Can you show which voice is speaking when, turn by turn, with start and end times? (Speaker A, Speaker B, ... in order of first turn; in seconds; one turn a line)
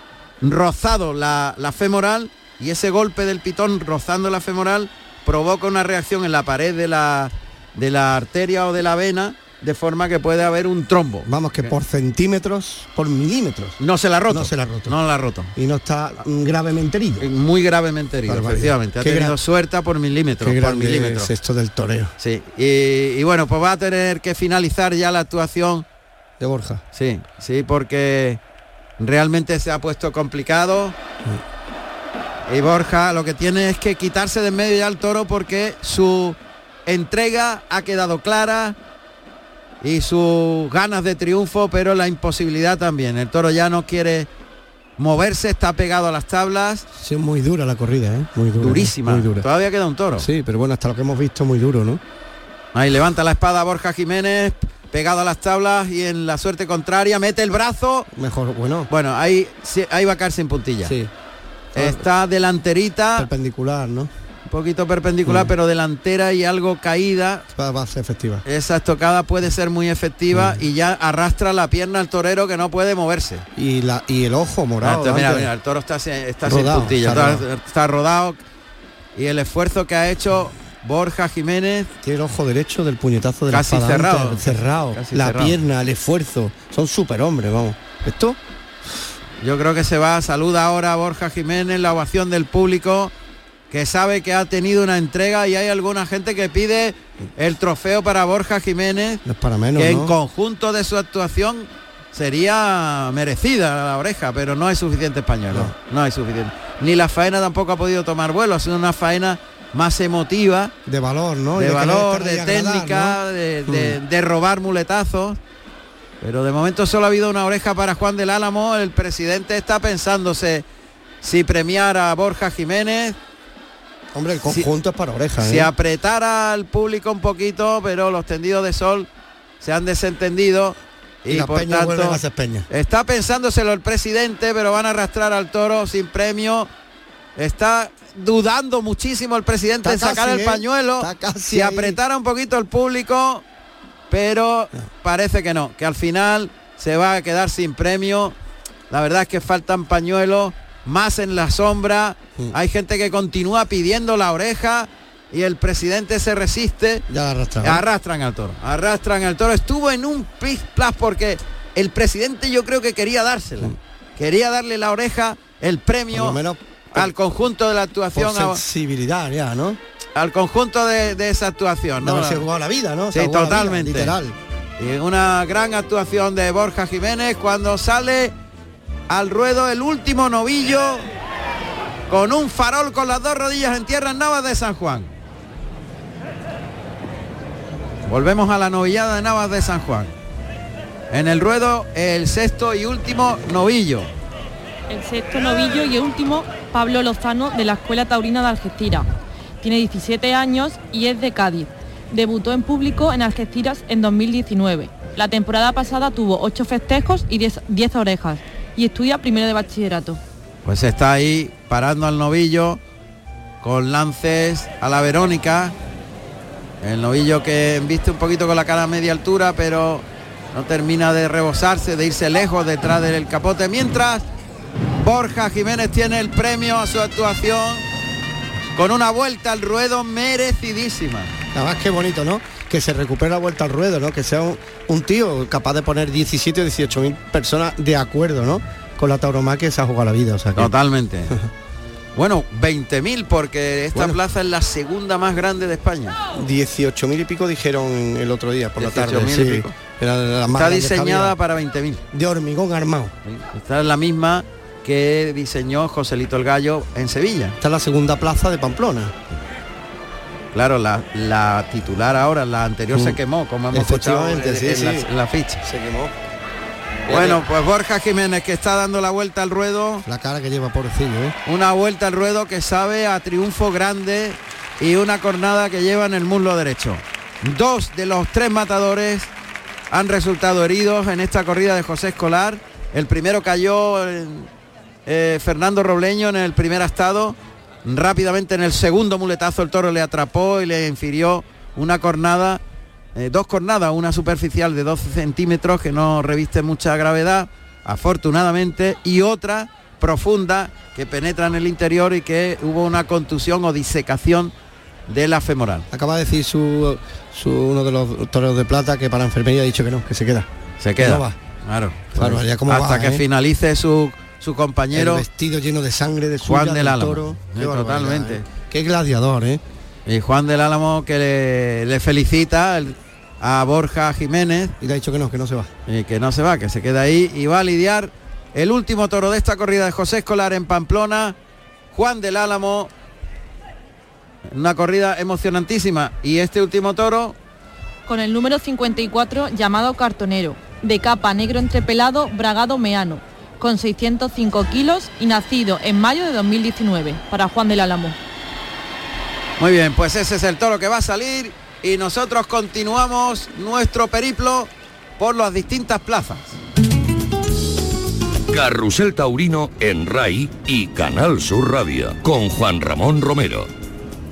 Speaker A: 0.4-11.7
Speaker B: 11.3-13.8
Speaker A: 13.8-15.5
Speaker B: 14.3-14.9
Speaker B: 15.6-17.3
Speaker A: 17.2-21.3
Speaker B: 18.3-19.4
Speaker B: 20.4-22.1
Speaker A: 22.2-25.9
Speaker B: 26.4-26.8
Speaker A: 26.9-28.4
Speaker A: 29.0-31.0
Speaker A: 32.5-38.8
Speaker A: 39.8-44.3
Speaker A: 45.0-46.9
Speaker B: 46.9-49.5
Speaker A: 48.6-50.3
Speaker B: 50.2-52.0
Speaker A: 52.7-58.1
Speaker B: 58.1-58.9
Speaker A: 58.9-60.9
Speaker B: 60.8-61.1
Speaker B: 61.7-62.0
Speaker A: 61.8-63.3
Speaker B: 63.2-64.1
Speaker A: 64.5-67.5
Speaker B: 65.3-65.5
Speaker B: 67.5-68.4
Speaker A: 68.5-73.5
Speaker B: 70.3-70.6
Speaker B: 73.6-75.5
Speaker A: 74.8-78.4
Speaker B: 76.5-77.4
Speaker A: 79.2-81.9
Speaker B: 82.0-88.4
Speaker A: 83.5-85.6
Speaker A: 89.4-93.1
Speaker A: 93.7-99.2
Speaker B: 99.2-100.1
Speaker A: 99.8-110.7
Speaker B: 110.9-114.0
Speaker A: 111.6-115.4
Speaker A: 116.2-120.7
Speaker A: 121.2-123.2
Speaker B: 124.1-125.7
Speaker A: 125.4-129.1
Speaker A: 129.6-136.7
Speaker B: 131.3-132.7
Speaker A: 137.4-143.4
Speaker B: 139.8-142.0
Speaker A: 144.1-148.4
Speaker A: 148.9-157.1
Speaker B: 157.1-157.8
Speaker A: 157.6-166.4
Speaker B: 166.1-167.1
Speaker A: 166.9-168.6
Speaker B: 168.2-169.8
Speaker A: 170.2-172.4
Speaker B: 172.0-174.4
Speaker A: 173.1-174.2
Speaker A: 174.8-178.3
Speaker A: 179.1-181.0
Speaker A: 182.1-185.1
Speaker A: 188.1-190.1
Speaker A: 191.1-194.1
Speaker C: 194.9-199.1
Speaker C: 199.6-210.2
Speaker A: 210.6-212.8
Speaker A: 213.6-215.8
Speaker A: 216.8-224.2
Speaker A: 225.0-227.8
Speaker A: 228.8-231.3
Speaker B: 231.5-240.7
Speaker A: 240.6-241.3
Speaker A: 242.2-246.2
Speaker B: 246.3-251.3
Speaker A: 248.8-249.7
Speaker A: 250.5-252.0
Speaker B: 252.1-253.1
Speaker A: 253.2-257.6
Speaker B: 257.6-259.2
Speaker A: 260.5-265.6
Speaker B: 263.7-265.1
Speaker B: 265.6-266.1
Speaker B: 267.1-267.4
Speaker A: 267.1-270.1
Speaker B: 270.1-271.4
Speaker A: 271.5-279.3
Speaker A: 279.9-284.5
Speaker A: 285.1-292.6
Speaker A: 293.1-304.5
Speaker A: 305.1-305.9
Speaker B: 305.9-310.5
Speaker A: 310.8-315.2
Speaker B: 311.0-311.4
Speaker B: 312.1-313.2
Speaker B: 314.9-319.6
Speaker A: 316.4-318.4
Speaker A: 320.1-324.8
Speaker B: 324.8-325.7
Speaker A: 325.9-331.4
Speaker A: 331.9-332.9
Speaker A: 334.5-337.4
Speaker C: 338.1-348.2
Speaker A: 349.6-356.6
Speaker D: 358.5-363.7